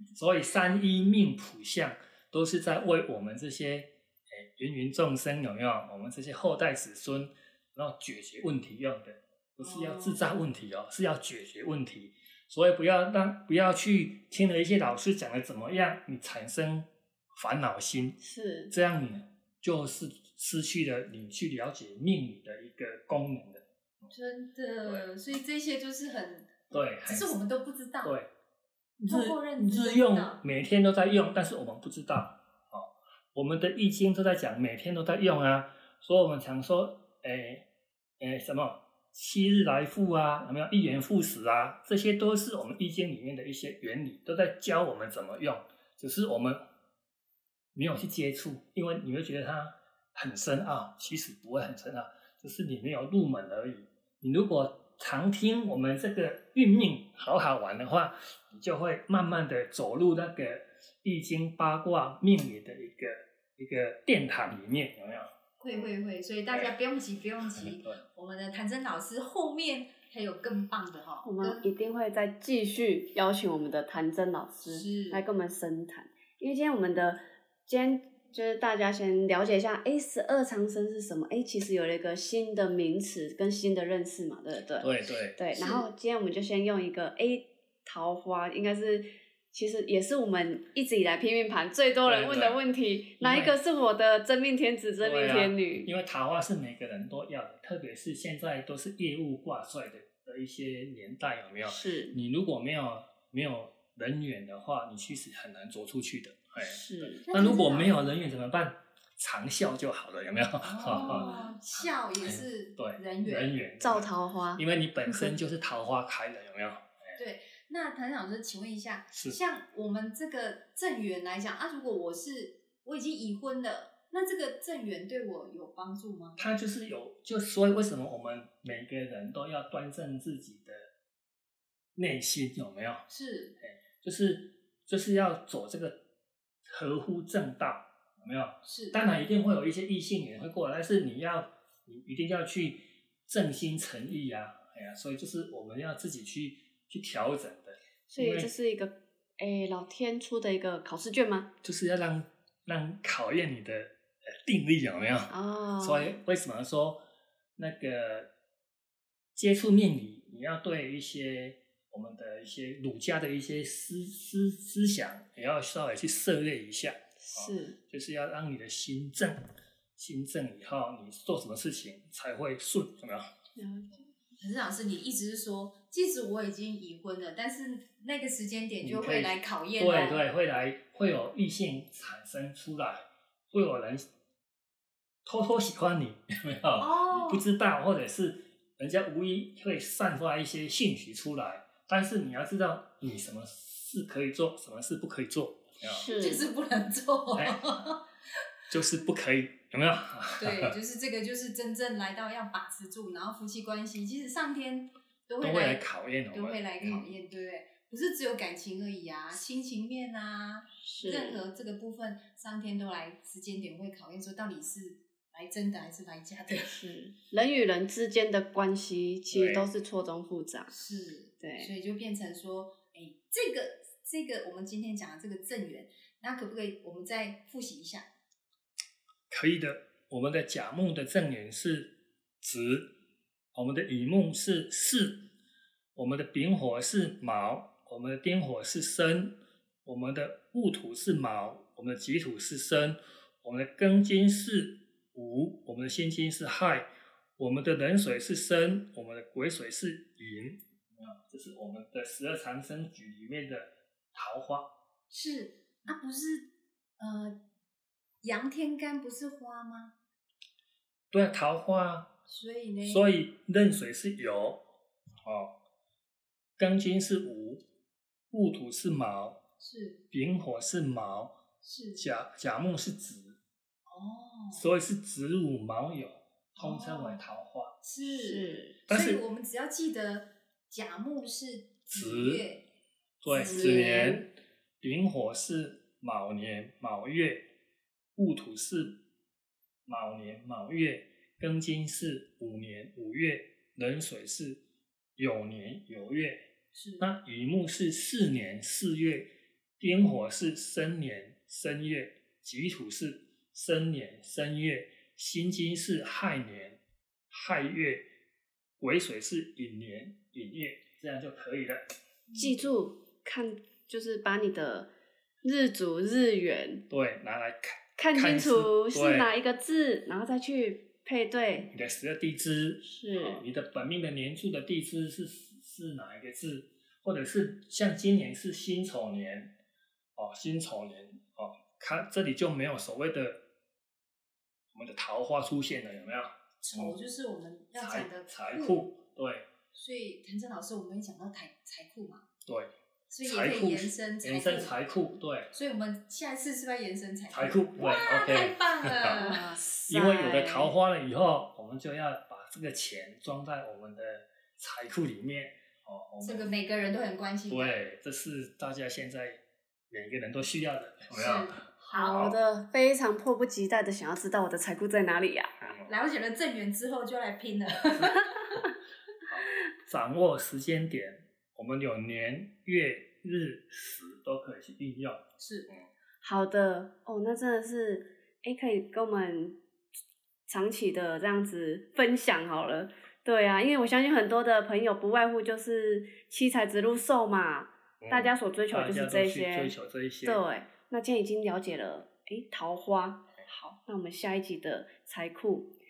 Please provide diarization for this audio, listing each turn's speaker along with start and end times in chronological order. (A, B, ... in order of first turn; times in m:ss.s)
0:00.2-0:18.2 A
0:18.2-0:18.7 B
0:18.7-0:24.1 A
0:24.1-0:28.2 C
0:26.7-0:27.4 A
0:28.0-0:28.3 A
0:29.0-0:37.7 A
0:29.1-0:30.4 C
0:38.2-0:46.6 A
0:47.8-1:05.9 A
1:05.6-1:11.7 C
1:07.4-1:08.0 A
1:11.2-1:35.9 B
1:14.6-1:15.2 C
1:24.8-1:25.4 A
1:25.5-1:25.9 C
1:32.0-1:32.6 A
1:33.2-1:33.6 A
1:35.0-1:57.2 A
1:41.6-1:42.2 B
1:46.6-1:47.3 B
1:47.3-1:48.1 C
1:50.6-1:53.5 C
1:50.9-1:51.4 B
1:53.8-1:55.3 B
1:57.2-2:06.4 C
2:06.4-2:10.9 A
2:12.0-2:13.1 A
2:13.1-2:13.6 C
2:14.0-2:16.0 A
2:16.7-2:28.5 A
2:18.6-2:19.0 C
2:28.1-2:31.5 B
2:31.6-2:37.0 A
2:35.3-2:36.2 B
2:37.6-2:38.3 A
2:39.4-2:49.4 A
2:47.2-2:47.8 B
2:50.0-2:53.3 A
2:53.6-2:54.0 B
2:54.4-3:00.2 C
2:58.8-3:04.1 A
3:05.2-3:16.1 A
3:06.8-3:07.4 C
3:15.8-3:16.5 B
3:16.1-3:18.1 C
3:17.3-3:17.6 A
3:18.7-3:20.7 A
3:20.4-3:36.8 C
3:25.4-3:27.1 A
3:30.8-3:31.4 B
3:36.7-3:40.7 B
3:39.3-3:39.7 A
3:40.7-3:48.1 C
3:41.4-3:41.7 B
3:49.3-3:52.9 A
3:53.5-3:55.3 A
3:56.0-4:14.7 A
4:15.1-4:17.4 C
4:18.2-4:19.9 C
4:21.1-4:22.1 A
4:22.3-4:23.1 C
4:22.8-4:24.6 A
4:25.2-4:25.5 A
4:26.6-4:27.6 A
4:28.3-4:29.4 A
4:29.6-4:30.0 C
4:30.1-4:31.4 A
4:31.6-4:32.0 C
4:32.0-4:33.4 A
4:33.9-4:34.6 C
4:34.5-4:37.8 A
4:36.6-4:37.2 C
4:37.8-4:42.7 C
4:38.0-4:38.8 B
4:38.9-4:39.2 A
4:41.9-4:42.5 A
4:43.2-4:44.3 A
4:43.3-4:44.0 C
4:43.3-4:44.3 B
4:44.8-4:47.5 A
4:48.2-4:49.0 A
4:49.9-4:54.6 A
4:55.2-4:56.5 A
4:56.7-4:57.1 C
4:57.0-5:08.1 A
5:08.8-5:11.9 A
5:12.3-5:12.7 C
5:12.4-5:14.9 B
5:15.4-5:16.8 B
5:16.9-5:19.3 A
5:18.0-5:21.7 B
5:21.7-5:29.5 A
5:22.8-5:23.4 B
5:30.2-5:33.4 A
5:34.7-5:37.0 A
5:36.6-5:38.8 C
5:37.8-5:39.5 A
5:39.7-5:42.3 C
5:42.4-5:42.7 A
5:43.1-5:44.7 C
5:43.2-5:45.5 A
5:45.5-5:49.5 C
5:47.3-5:49.3 A
5:49.1-5:50.7 B
5:49.9-5:56.5 A
5:56.2-5:57.8 C
5:57.5-6:01.6 A
6:01.1-6:02.3 C
6:01.9-6:05.7 B
6:05.6-6:05.9 A
6:05.8-6:08.6 C
6:09.3-6:15.9 A
6:15.4-6:15.7 C
6:16.2-6:19.6 B
6:20.5-6:35.7 B
6:28.0-6:30.4 A